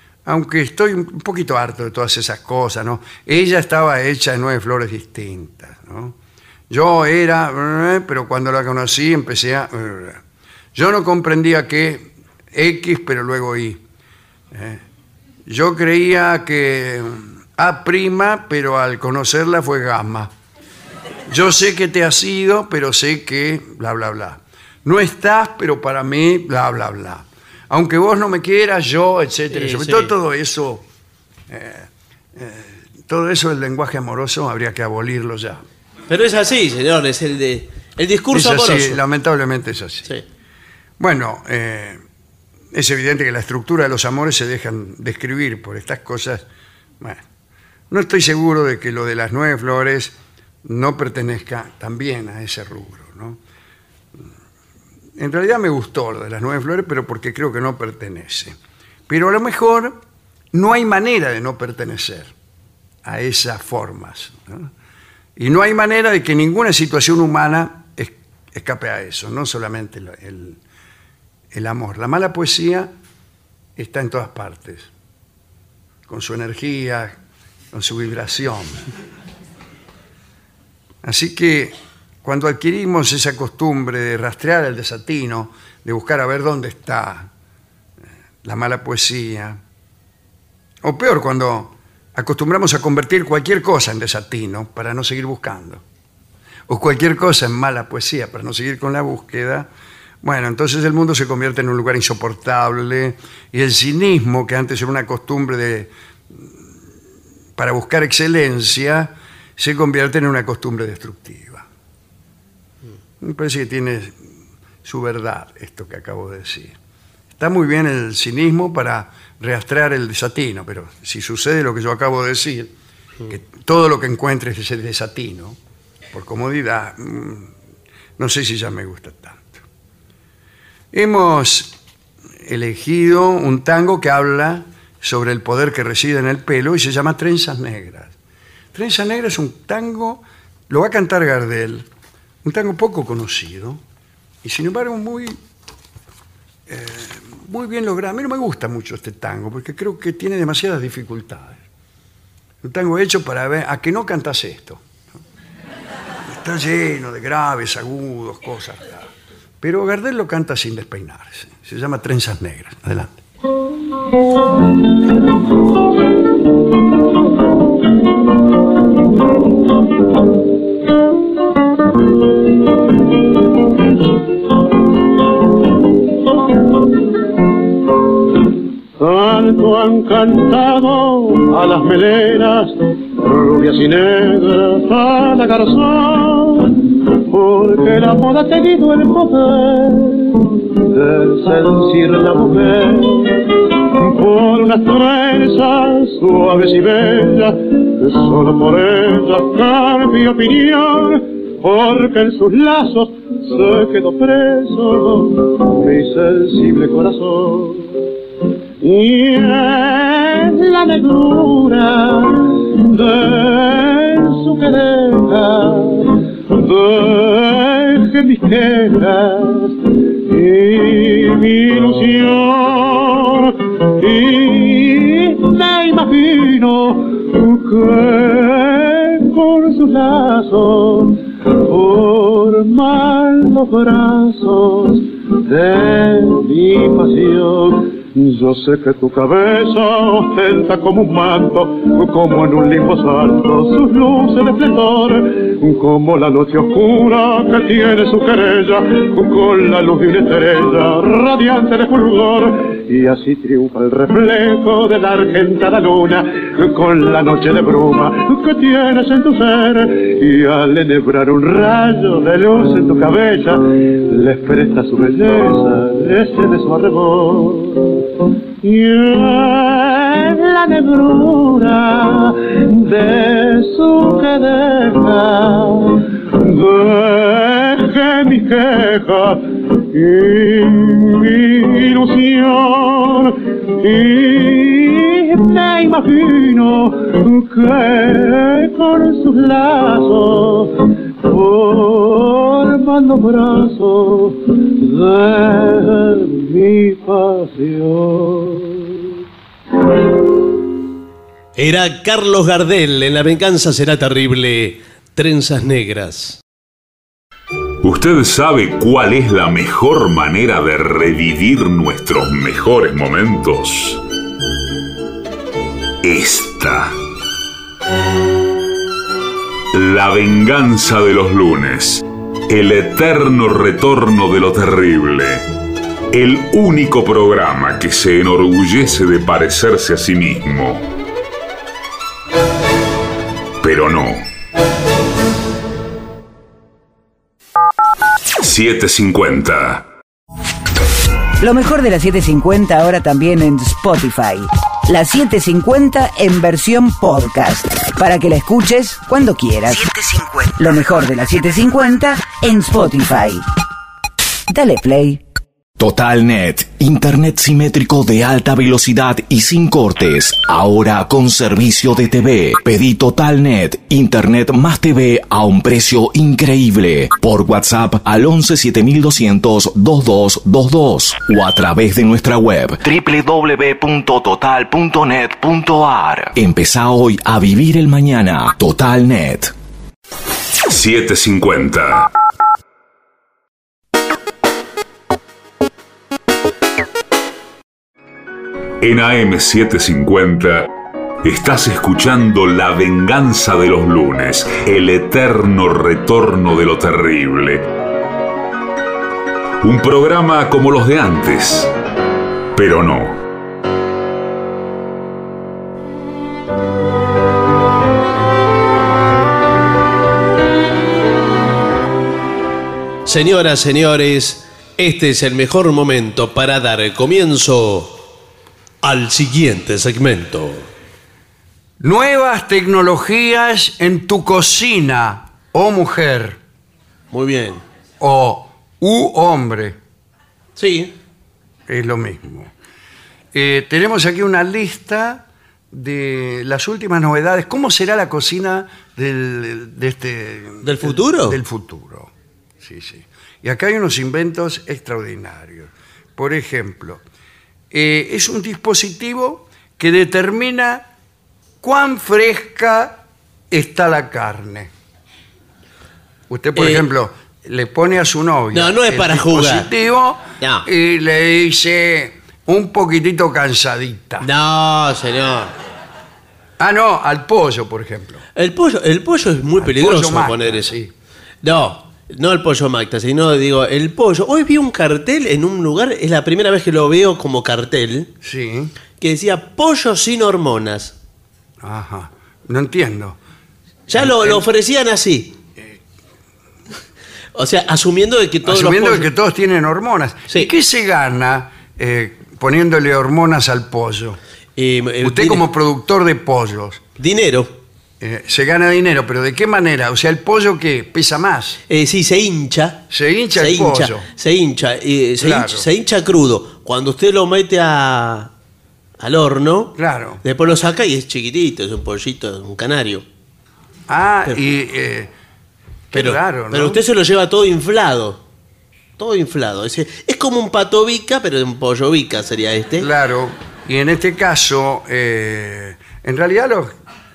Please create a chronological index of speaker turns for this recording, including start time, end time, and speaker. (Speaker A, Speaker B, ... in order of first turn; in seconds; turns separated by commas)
Speaker A: 0.2-6.2, Speaker A: 6.7-10.2, Speaker A: 10.7-13.8, Speaker A: 14.5-14.8, Speaker A: 15.4-20.3, Speaker A: 21.3-30.8, Speaker B: 29.5-30.1, Speaker A: 31.5-35.6, Speaker B: 36.1-39.0, Speaker A: 38.3-40.1, Speaker A: 41.0-42.0, Speaker A: 42.7-46.4, Speaker A: 47.9-53.4, Speaker A: 55.2-58.6, Speaker A: 59.1-60.0, Speaker A: 60.5-62.3, Speaker A: 63.0-64.7, Speaker A: 65.3-70.6, Speaker A: 71.5-72.9, Speaker A: 73.8-74.9, Speaker A: 76.1-77.1, Speaker A: 77.7-78.8, Speaker A: 81.0-87.3, Speaker A: 88.4-89.6, Speaker A: 90.8-95.8, Speaker A: 96.7-99.7, Speaker A: 100.2-106.5, Speaker A: 107.6-111.6, Speaker A: 113.2-114.2, Speaker A: 114.8-116.8, Speaker A: 117.4-122.7, Speaker A: 123.3-125.6, Speaker A: 126.1-127.5, Speaker A: 128.2-129.6, Speaker A: 130.9-131.8, Speaker A: 132.4-138.1, Speaker A: 138.7-141.9, Speaker A: 142.4-143.8, Speaker A: 144.4-145.4, Speaker A: 146.7-151.6, Speaker A: 152.6-154.8, Speaker A: 156.3-159.1, Speaker A: 159.6-163.2, Speaker C: 179.0-208.0, Speaker C: 208.8-268.0, Speaker C: 268.6-299.1, Speaker B: 301.6-306.4, Speaker D: 307.8-314.0, Speaker D: 316.0-316.9, Speaker D: 319.7-325.4, Speaker D: 326.1-330.9, Speaker D: 333.6-334.3, Speaker D: 338.4-339.9, Speaker E: 341.4-353.4, Speaker E: 354.5-355.2, Speaker F: 355.8-379.5, Speaker D: 380.7-382.1, Speaker D: 388.8-390.7, Speaker D: 391.2-397.6, Speaker D: 399.6-401.7, Speaker D: 402.5-403.2, Speaker B: 413.1-418.0, Speaker B: 418.8-420.7, Speaker A: 421.8-426.4, Speaker B: 427.1-427.6, Speaker A: 428.0-429.8, Speaker B: 430.6-430.9, Speaker A: 431.7-432.5, Speaker A: 433.3-447.0, Speaker B: 440.6-441.4, Speaker A: 447.7-450.9, Speaker A: 451.6-453.0, Speaker A: 453.5-454.7, Speaker A: 456.3-464.3, Speaker B: 456.6-456.8, Speaker B: 458.5-459.7, Speaker B: 460.4-460.6, Speaker B: 464.2-465.5, Speaker A: 466.6-468.2, Speaker B: 468.4-470.7, Speaker A: 469.6-470.9, Speaker B: 471.4-478.1, Speaker A: 478.2-478.7, Speaker B: 479.0-480.9, Speaker A: 481.6-483.2, Speaker B: 483.9-485.3, Speaker A: 483.9-484.4, Speaker B: 487.3-489.1, Speaker A: 488.4-494.2, Speaker B: 494.6-495.4, Speaker A: 495.0-496.8, Speaker B: 497.0-497.6, Speaker A: 498.0-501.6, Speaker B: 501.7-502.8, Speaker A: 502.9-504.0, Speaker B: 503.4-508.3, Speaker A: 505.2-505.7, Speaker B: 509.0-513.0, Speaker A: 509.8-510.2, Speaker A: 513.9-515.1, Speaker A: 515.9-516.8, Speaker B: 515.9-518.2, Speaker B: 519.0-522.9, Speaker A: 522.8-526.7